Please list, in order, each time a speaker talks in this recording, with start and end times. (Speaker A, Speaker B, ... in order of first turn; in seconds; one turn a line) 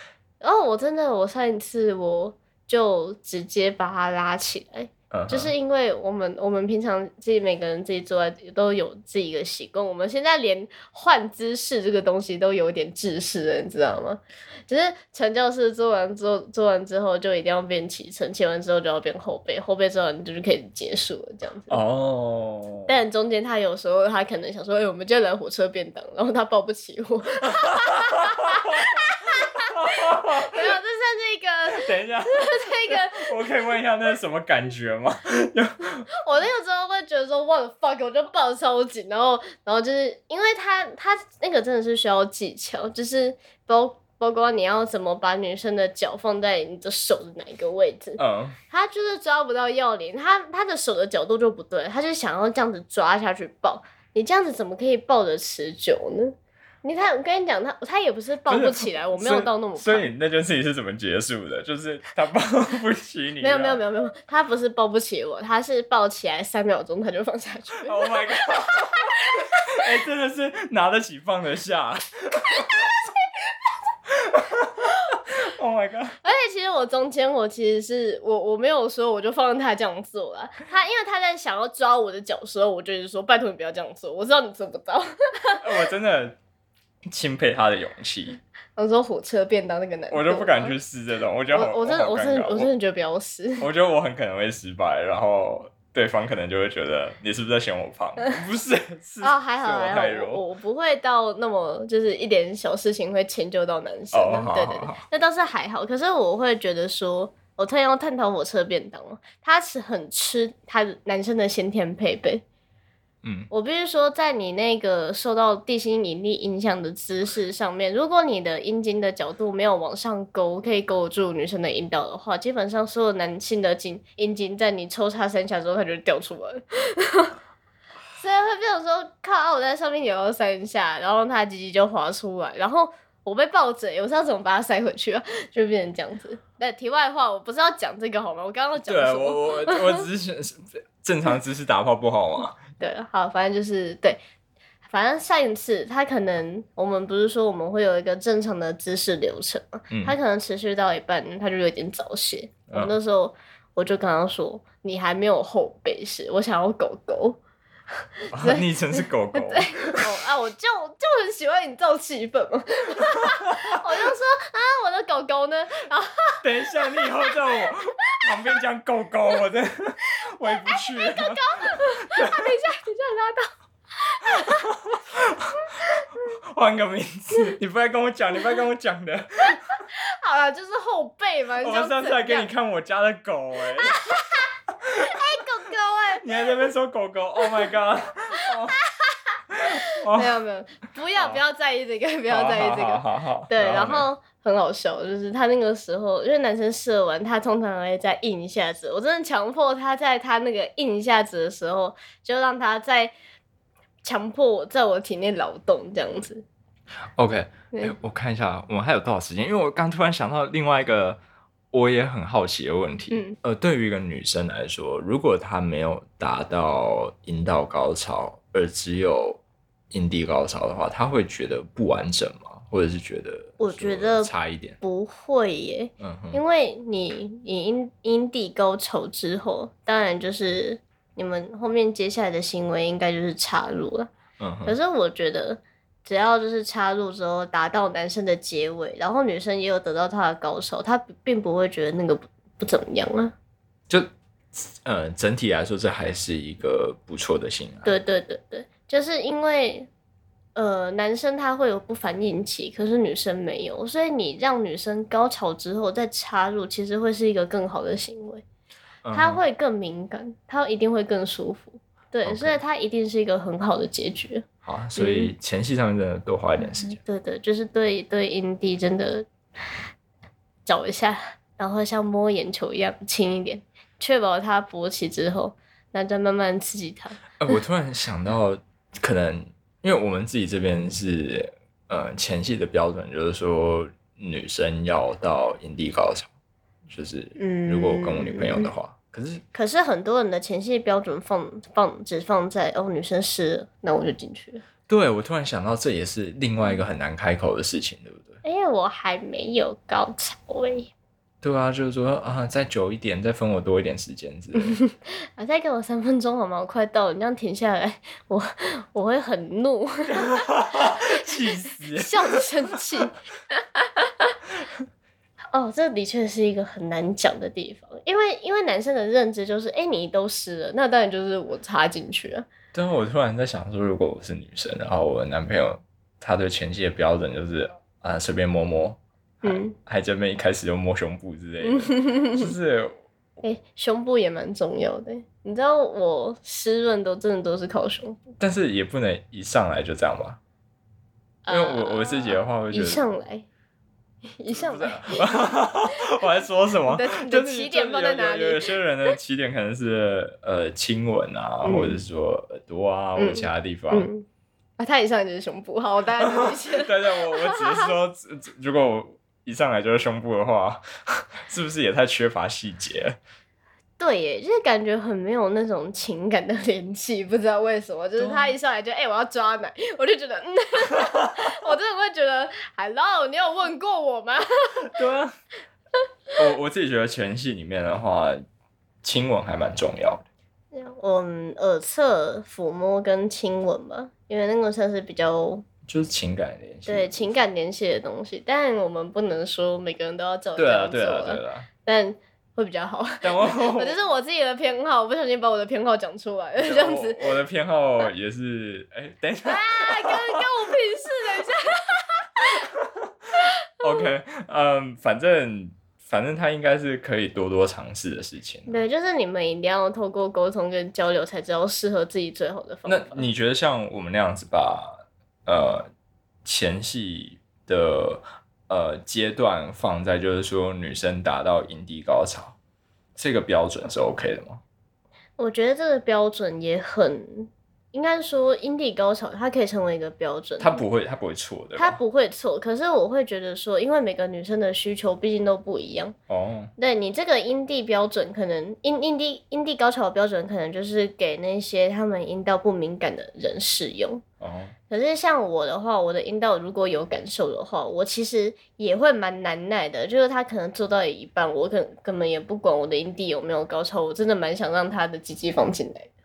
Speaker A: 0.4-21.8
Speaker B: 5.1-5.5
Speaker B: 21.7-22.9
Speaker A: 22.9-33.4
Speaker B: 27.6-30.6
Speaker B: 31.7-36.1
Speaker A: 36.1-60.1
Speaker B: 48.2-48.6
Speaker B: 58.5-63.8
Speaker A: 63.4-69.5
Speaker B: 67.8-73.1
Speaker B: 74.1-76.2
Speaker A: 76.2-85.6
Speaker B: 85.6-86.4
Speaker B: 87.0-88.4
Speaker A: 88.8-90.8
Speaker B: 90.1-92.7
Speaker A: 91.5-93.7
Speaker B: 93.6-100.4
Speaker A: 99.2-112.4
Speaker B: 104.1-105.0
Speaker B: 113.2-113.5
Speaker A: 113.5-127.3
Speaker A: 128.2-140.0
Speaker B: 138.8-142.6
Speaker A: 142.8-144.2
Speaker A: 144.8-157.4
Speaker B: 149.9-150.2
Speaker B: 152.7-152.9
Speaker A: 158.3-167.3
Speaker B: 158.3-160.0
Speaker B: 166.4-172.5
Speaker A: 170.4-174.7
Speaker B: 174.4-175.7
Speaker B: 176.5-179.6
Speaker A: 179.9-182.5
Speaker B: 181.6-183.9
Speaker A: 183.8-186.5
Speaker B: 186.2-188.8
Speaker A: 189.0-203.1
Speaker B: 189.5-190.4
Speaker B: 191.2-191.4
Speaker B: 192.3-194.1
Speaker A: 204.0-206.4
Speaker B: 207.2-211.2
Speaker B: 211.7-224.8
Speaker A: 213.1-213.3
Speaker A: 223.6-234.1
Speaker B: 226.0-226.4
Speaker B: 234.4-234.8
Speaker A: 234.7-243.3
Speaker B: 243.9-247.9
Speaker A: 247.8-249.9
Speaker A: 250.5-258.4
Speaker B: 259.0-259.4
Speaker A: 259.1-264.4
Speaker B: 262.2-262.6
Speaker B: 264.6-267.0
Speaker A: 265.0-265.3
Speaker A: 266.6-269.3
Speaker A: 270.6-277.2
Speaker B: 277.4-286.3
Speaker B: 286.9-289.4
Speaker A: 287.4-288.7
Speaker A: 289.5-294.6
Speaker B: 294.9-298.4
Speaker A: 298.4-300.9
Speaker B: 301.4-304.8
Speaker A: 304.6-314.4
Speaker B: 310.2-312.8
Speaker A: 315.5-322.5
Speaker B: 322.7-333.0
Speaker A: 329.4-329.7
Speaker A: 331.6-332.5
Speaker A: 333.4-338.3
Speaker B: 338.4-340.4
Speaker A: 341.4-343.4
Speaker B: 341.5-343.0
Speaker A: 344.4-345.3
Speaker B: 344.5-354.1
Speaker A: 346.9-348.7
Speaker A: 351.6-352.0
Speaker A: 353.2-354.2
Speaker A: 354.8-357.9
Speaker B: 356.2-363.2
Speaker A: 364.0-374.9
Speaker B: 368.2-368.5
Speaker B: 374.9-375.4
Speaker B: 376.4-378.4
Speaker B: 379.0-380.2
Speaker A: 380.7-385.6
Speaker B: 385.9-387.3
Speaker A: 386.9-397.4
Speaker B: 390.6-391.7
Speaker B: 393.2-394.0
Speaker B: 396.6-400.4
Speaker A: 399.4-402.7
Speaker B: 402.6-408.8
Speaker A: 403.8-404.1
Speaker A: 408.7-413.3
Speaker B: 412.9-415.9
Speaker B: 416.4-422.6
Speaker B: 423.1-424.6
Speaker A: 425.4-430.8
Speaker B: 430.6-432.0
Speaker A: 431.8-436.1
Speaker B: 436.3-436.7
Speaker A: 436.8-444.2
Speaker B: 444.4-444.7
Speaker A: 444.9-456.1